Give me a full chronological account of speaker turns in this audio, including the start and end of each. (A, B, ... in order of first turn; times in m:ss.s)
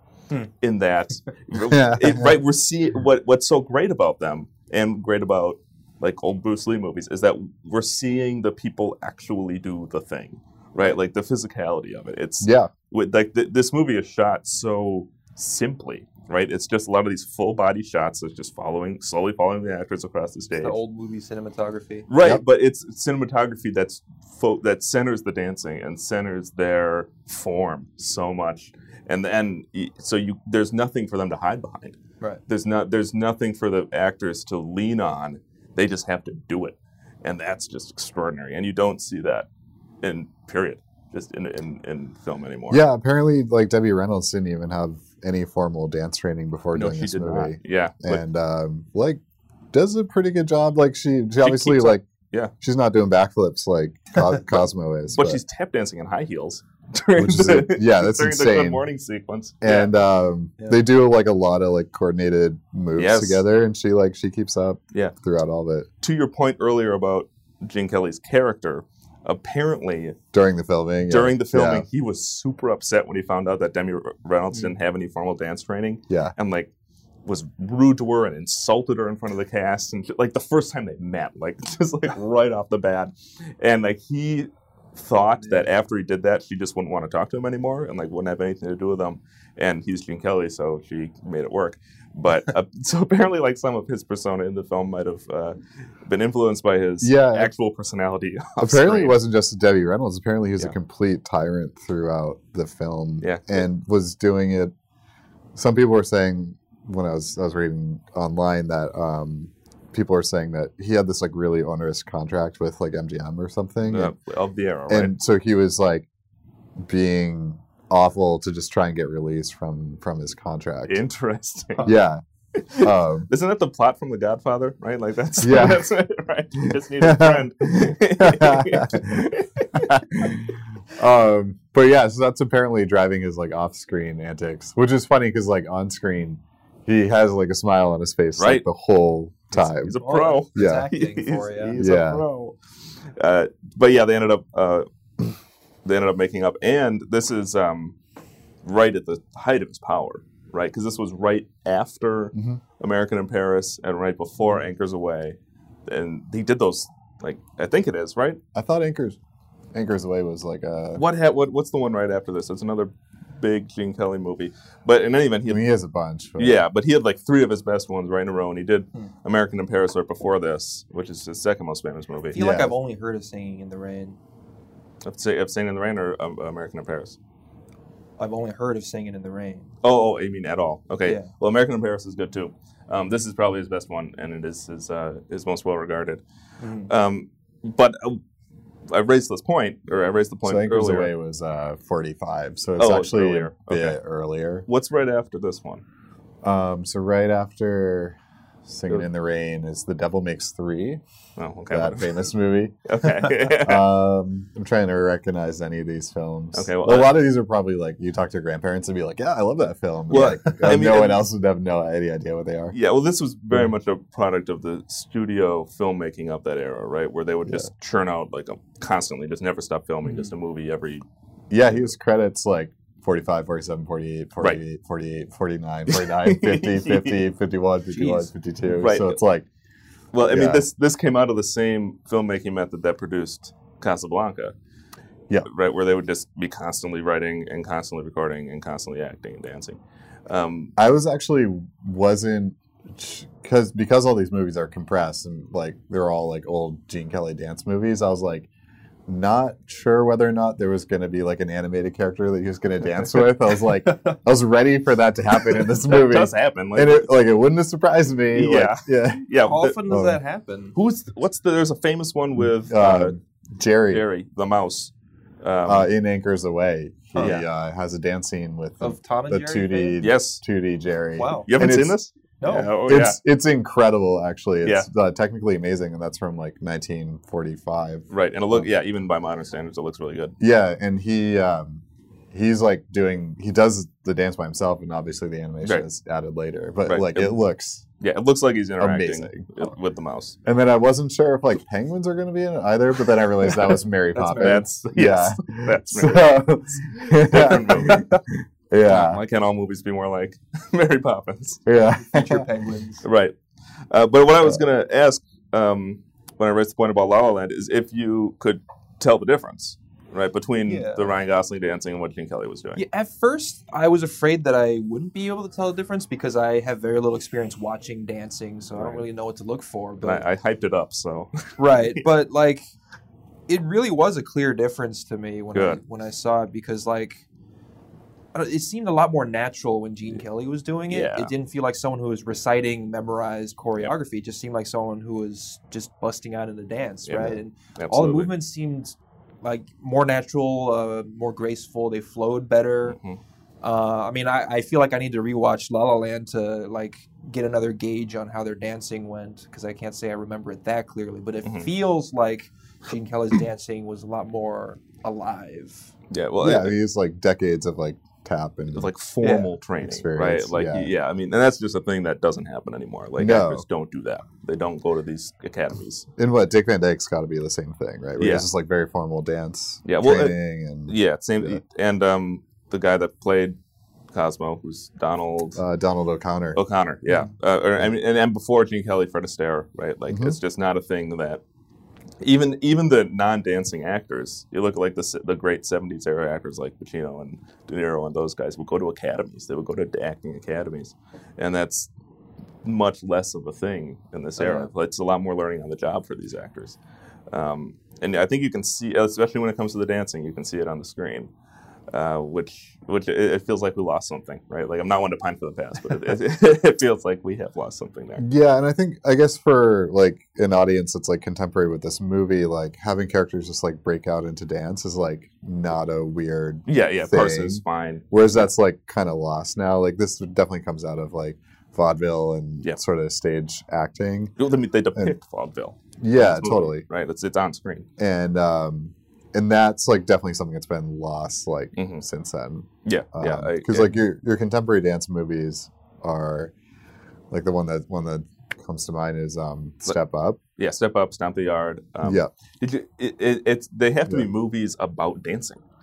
0:00.6-0:20.8 A
0:01.6-0:02.4 B
0:12.4-0:12.7 B
0:20.5-0:22.1 C
0:22.1-0:39.5 A
0:40.0-0:42.8 A
0:42.7-0:49.2 B
0:46.7-0:48.2 A
0:49.7-0:52.0 B
0:51.4-0:52.5 A
0:52.6-0:55.4 B
0:55.1-0:59.9 A
0:57.2-0:58.8 B
0:59.6-1:05.9 B
1:03.0-1:03.4 A
1:06.0-1:10.2 A
1:10.3-1:11.8 B
1:11.0-1:16.7 A
1:16.1-1:16.3 B
1:17.2-1:39.1 A
1:37.0-1:37.5 B
1:38.6-1:44.7 B
1:43.2-1:43.6 A
1:45.5-1:54.1 B
1:53.9-1:55.1 A
1:54.9-1:56.1 B
1:56.8-2:01.0 B
2:00.9-2:01.9 A
2:01.8-2:02.2 B
2:02.6-2:10.3 A
2:02.8-2:03.3 B
2:05.4-2:05.8 B
2:07.0-2:09.2 B
2:09.7-2:20.0 B
2:18.4-2:18.6 A
2:19.5-2:22.6 A
2:19.9-2:21.8 C
2:20.5-2:20.9 B
2:21.7-2:22.2 B
2:23.2-2:25.3 A
2:25.8-2:27.9 A
2:28.6-2:38.4 A
2:32.3-2:32.6 B
2:38.5-2:39.2 B
2:39.7-2:41.0 B
2:41.0-2:45.6 A
2:45.5-2:46.6 B
2:46.4-2:52.4 A
2:52.3-2:54.2 C
2:52.3-2:52.7 B
2:55.0-2:57.2 A
2:58.2-2:59.7 C
2:59.8-3:06.2 A
3:01.0-3:01.3 C
3:06.6-3:06.9 C
3:06.9-3:08.2 A
3:08.9-3:11.1 A
3:10.4-3:14.6 B
3:12.8-3:14.0 A
3:14.7-3:15.8 A
3:16.4-3:21.0 B
3:21.4-3:22.2 A
3:21.7-3:32.7 B
3:22.8-3:23.8 A
3:26.5-3:27.2 A
3:30.1-3:31.2 A
3:32.7-3:41.0 A
3:41.5-3:49.4 B
3:45.9-3:47.2 A
3:47.9-3:48.2 C
3:48.8-3:49.2 A
3:50.1-3:54.5 A
3:50.2-3:50.7 B
3:55.4-4:00.7 A
4:00.8-4:08.5 B
4:09.1-4:19.2 B
4:13.9-4:14.2 C
4:15.8-4:17.1 A
4:18.3-4:19.8 A
4:19.4-4:20.7 C
4:19.9-4:20.2 B
4:20.8-4:23.1 A
4:22.6-4:24.0 B
4:23.9-4:25.9 A
4:25.6-4:32.0 B
4:27.1-4:27.4 C
4:27.2-4:27.4 A
4:28.8-4:30.0 C
4:30.0-4:30.4 A
4:31.2-4:31.5 C
4:31.5-4:33.2 A
4:32.4-4:32.7 C
4:32.8-4:38.7 B
4:38.1-4:40.4 A
4:40.4-4:47.8 B
4:46.9-4:47.4 A
4:48.0-4:50.4 A
4:48.8-4:49.7 B
4:50.4-4:59.2 B
4:54.1-4:54.6 C
4:54.3-4:58.2 A
4:58.8-5:01.6 A
5:01.6-5:02.4 B
5:02.0-5:03.0 C
5:03.0-5:03.4 A
5:03.9-5:12.8 A
5:10.6-5:11.2 C
5:12.7-5:20.2 C
5:18.8-5:19.0 A
5:20.0-5:22.0 A
5:21.6-5:22.7 C
5:23.5-5:27.2 C
5:25.5-5:25.8 A
5:28.3-5:43.0 C
5:30.9-5:31.3 A
5:37.1-5:38.3 A
5:42.9-5:43.2 A
5:43.6-5:55.9 C
5:51.4-5:51.7 A
5:56.1-5:56.8 A
5:56.4-5:58.9 B
5:58.8-6:06.1 A
5:59.2-5:59.5 C
5:59.8-6:00.9 B
6:03.2-6:03.6 B
6:06.2-6:11.6 B
6:08.2-6:08.5 A
6:09.8-6:10.4 A
6:10.9-6:13.6 A
6:14.1-6:15.6 A
6:15.6-6:16.6 B
6:16.6-6:21.4 A
6:20.1-6:20.4 B
6:22.2-6:31.9 A
6:32.6-6:36.8 A
6:34.4-6:34.7 C
6:37.3-6:41.3 A
6:41.9-6:48.2 A
6:48.2-7:04.3 B
6:56.7-6:58.5 A
7:04.4-7:07.9 A
7:06.0-7:06.8 B
7:08.0-7:16.5 B
7:11.8-7:12.0 A
7:12.8-7:13.9 A
7:17.3-7:20.4 B
7:20.6-7:25.6 A
7:22.0-7:22.3 B